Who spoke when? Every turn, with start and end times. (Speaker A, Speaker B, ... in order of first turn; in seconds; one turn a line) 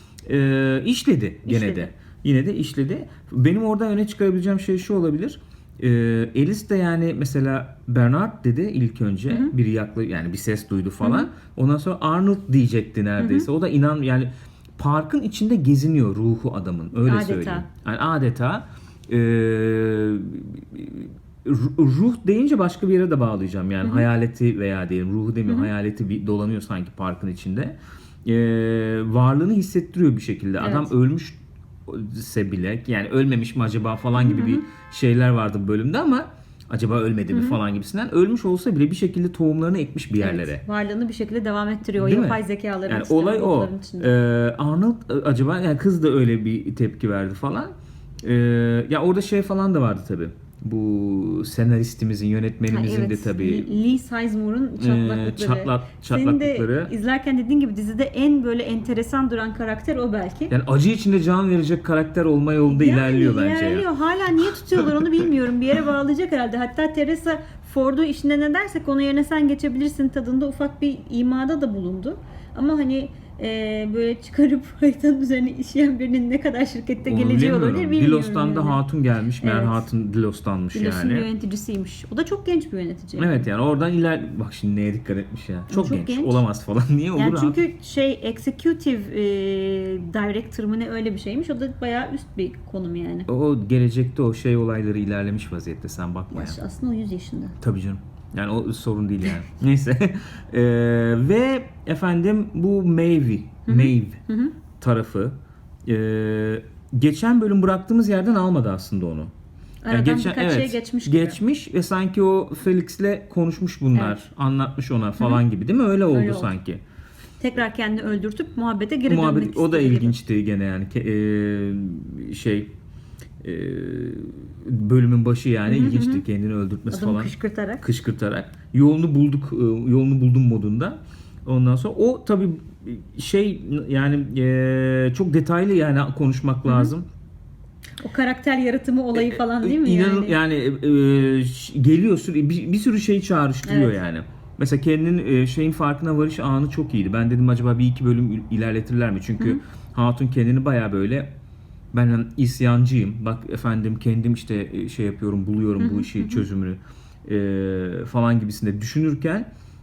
Speaker A: 0.2-40.6
Speaker B: 1.5-1.9
Speaker B: 9.3-9.5
Speaker B: 11.0-11.3
Speaker B: 13.2-13.5
Speaker B: 17.1-17.7
Speaker B: 23.8-24.1
Speaker B: 30.6-30.9
Speaker B: 34.2-34.6
Speaker B: 37.3-37.6
Speaker B: 40.2-44.1
Speaker A: 42.0-53.7
Speaker B: 52.7-60.5
Speaker A: 54.8-56.9
Speaker A: 60.5-63.9
Speaker B: 62.7-78.8
Speaker A: 77.0-81.3
Speaker B: 79.4-79.8
Speaker B: 80.7-83.5
Speaker A: 83.2-87.6
Speaker B: 85.7-86.4
Speaker B: 87.2-93.3
Speaker A: 93.3-96.6
Speaker B: 96.3-97.6
Speaker A: 97.6-104.2
Speaker B: 103.7-104.5
Speaker A: 104.8-109.3
Speaker B: 109.8-111.4
Speaker A: 109.9-116.8
Speaker B: 114.0-114.2
Speaker B: 116.1-116.5
Speaker B: 117.4-120.2
Speaker A: 119.1-122.7
Speaker A: 123.4-137.1
Speaker B: 125.7-126.2
Speaker B: 126.9-127.8
Speaker B: 136.7-136.9
Speaker B: 138.0-140.4
Speaker A: 139.1-151.3
Speaker B: 143.7-144.0
Speaker A: 151.9-159.5
Speaker B: 155.8-156.4